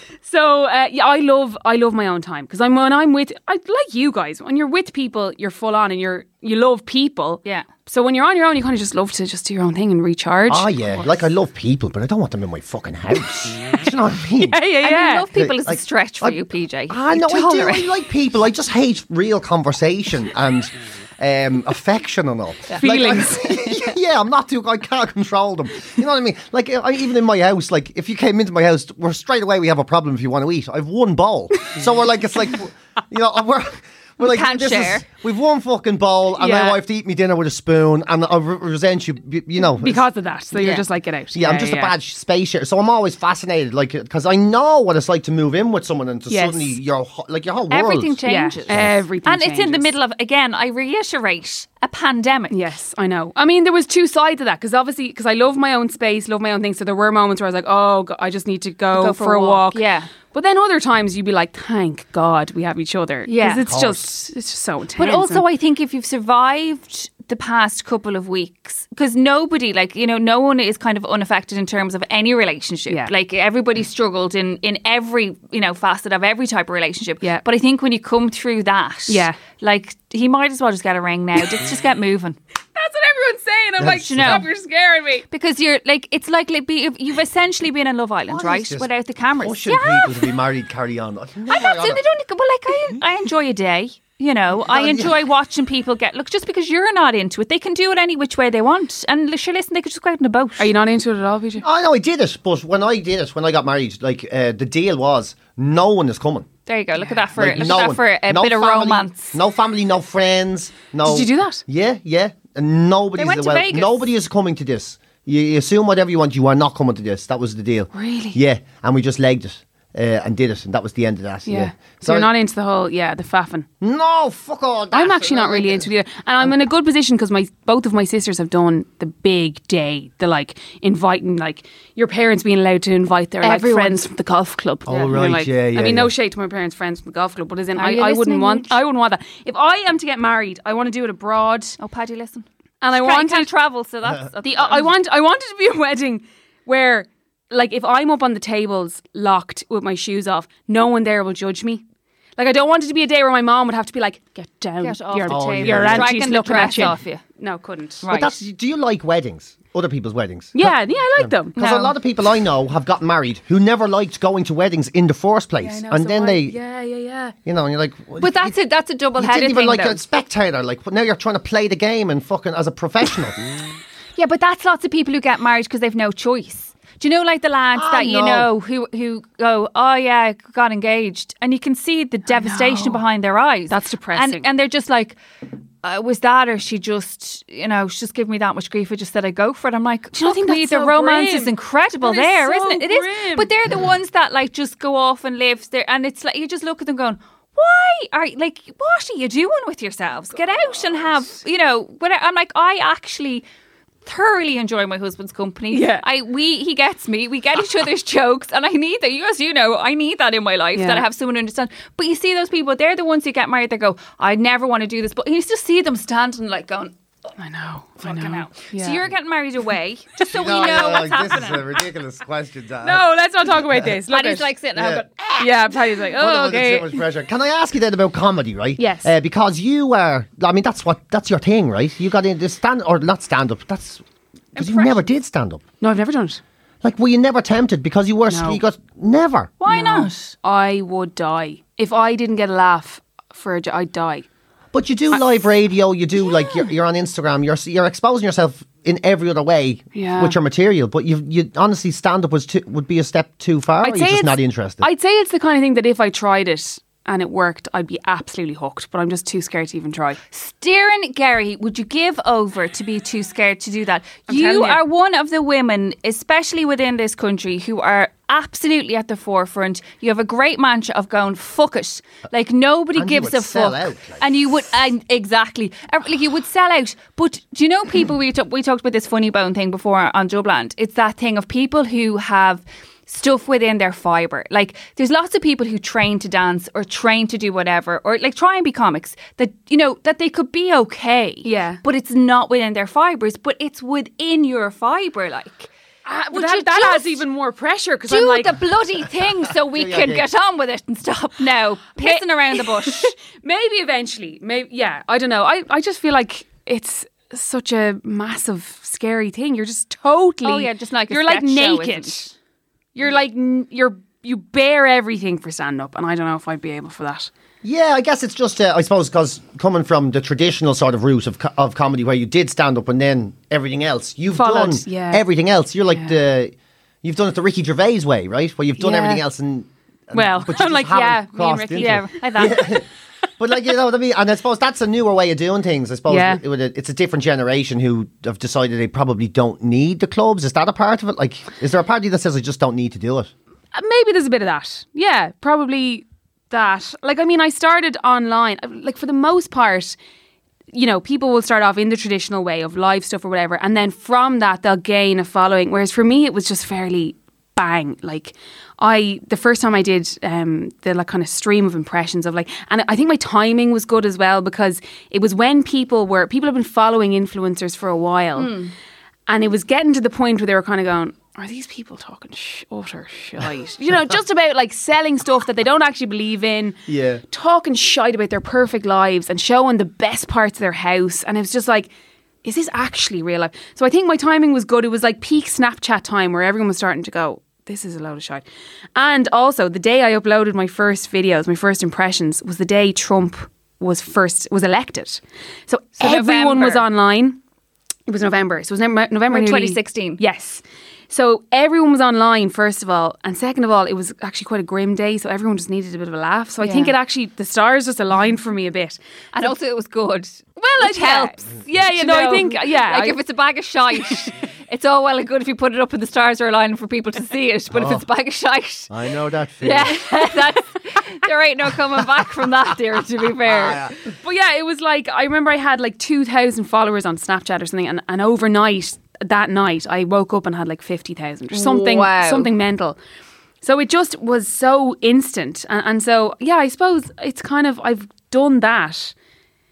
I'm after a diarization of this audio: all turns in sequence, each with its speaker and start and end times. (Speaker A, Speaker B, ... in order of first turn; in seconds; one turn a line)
Speaker A: 0.2-10.7
Speaker B: 10.5-14.6
Speaker A: 14.4-15.2
Speaker C: 14.8-17.9
Speaker B: 15.3-40.0
Speaker C: 22.7-23.2
Speaker A: 22.8-23.7
Speaker C: 34.2-35.0
Speaker A: 36.4-36.8
Speaker A: 39.8-41.9
Speaker C: 40.5-40.8
Speaker B: 41.3-49.0
Speaker A: 46.3-46.7
Speaker C: 47.7-52.5
Speaker A: 48.2-49.9
Speaker A: 52.5-65.4
Speaker C: 58.9-60.1
Speaker C: 63.2-63.6
Speaker B: 63.6-64.1
Speaker C: 65.0-82.4
Speaker A: 79.1-79.4
Speaker A: 82.7-85.2
Speaker B: 83.8-84.5
Speaker C: 84.0-84.5
Speaker C: 85.3-90.3
Speaker B: 88.3-88.9
Speaker B: 89.4-92.0
Speaker C: 91.5-100.7
Speaker B: 94.6-95.2
Speaker A: 100.6-101.6
Speaker B: 101.6-106.5
Speaker C: 106.7-109.3
Speaker A: 107.0-107.5
Speaker B: 107.4-122.3
Speaker A: 111.0-111.6
Speaker C: 113.2-114.1
Speaker A: 117.9-118.4
Speaker A: 121.5-123.7
Speaker B: 123.8-125.9
Speaker A: 124.9-141.8
Speaker C: 133.4-134.1
Speaker B: 134.9-136.1
Speaker C: 137.8-138.8
Speaker C: 141.8-144.9
Speaker A: 142.8-143.5
Speaker A: 144.4-151.8
Speaker A: 152.4-158.0
Speaker C: 154.8-157.2
Speaker B: 155.3-156.2
Speaker C: 158.0-158.3
Speaker B: 158.1-166.6
Speaker A: 160.5-161.7
Speaker C: 161.6-161.9
Speaker A: 165.6-167.3
Speaker B: 167.4-168.6
Speaker C: 168.2-170.0
Speaker B: 169.2-173.4
Speaker C: 174.2-185.2
Speaker B: 177.7-178.5
Speaker A: 182.3-183.0
Speaker A: 183.7-184.4
Speaker C: 185.8-203.4
Speaker A: 190.1-193.5
Speaker C: 204.0-216.9
Speaker A: 205.7-206.0
Speaker A: 210.7-211.1
Speaker A: 217.4-219.0
Speaker C: 218.0-221.8
Speaker B: 220.2-223.1
Speaker A: 222.8-224.5
Speaker C: 224.1-226.0
Speaker B: 224.7-225.0
Speaker A: 225.4-227.0
Speaker B: 226.2-234.0
Speaker A: 228.8-229.1
Speaker B: 234.6-235.6
Speaker C: 234.6-234.9
Speaker A: 235.8-236.4
Speaker B: 236.8-239.5
Speaker A: 238.3-238.6
Speaker C: 239.6-240.3
Speaker A: 239.7-244.2
Speaker B: 244.7-254.9
Speaker A: 249.9-250.4
Speaker A: 253.8-260.2
Speaker C: 260.3-295.7
Speaker A: 264.3-264.8
Speaker B: 272.9-274.3
Speaker A: 291.4-291.8
Speaker A: 296.1-298.5
Speaker C: 296.3-297.2
Speaker C: 298.1-303.1
Speaker B: 299.7-300.2
Speaker A: 302.0-312.3
Speaker C: 310.4-312.3
Speaker A: 312.9-317.3
Speaker B: 317.6-332.9
Speaker A: 324.3-325.2
Speaker A: 328.8-329.2
Speaker A: 330.1-332.1
Speaker C: 331.7-332.8
Speaker B: 333.4-343.3
Speaker A: 336.1-336.4
Speaker A: 343.7-350.0
Speaker A: 350.7-368.5
Speaker C: 368.4-368.7
Speaker A: 369.3-381.9
Speaker B: 376.9-377.2
Speaker A: 382.4-388.4
Speaker A: 388.9-397.4
Speaker C: 396.0-396.9
Speaker A: 398.1-409.0
Speaker C: 399.3-400.2
Speaker C: 406.6-406.9
Speaker C: 409.3-418.9
Speaker A: 410.6-413.2
Speaker B: 417.7-418.0
Speaker B: 418.9-420.0
Speaker C: 419.6-423.9
Speaker B: 423.4-423.9
Speaker A: 424.2-433.0
Speaker C: 431.5-432.5
Speaker A: 433.6-439.1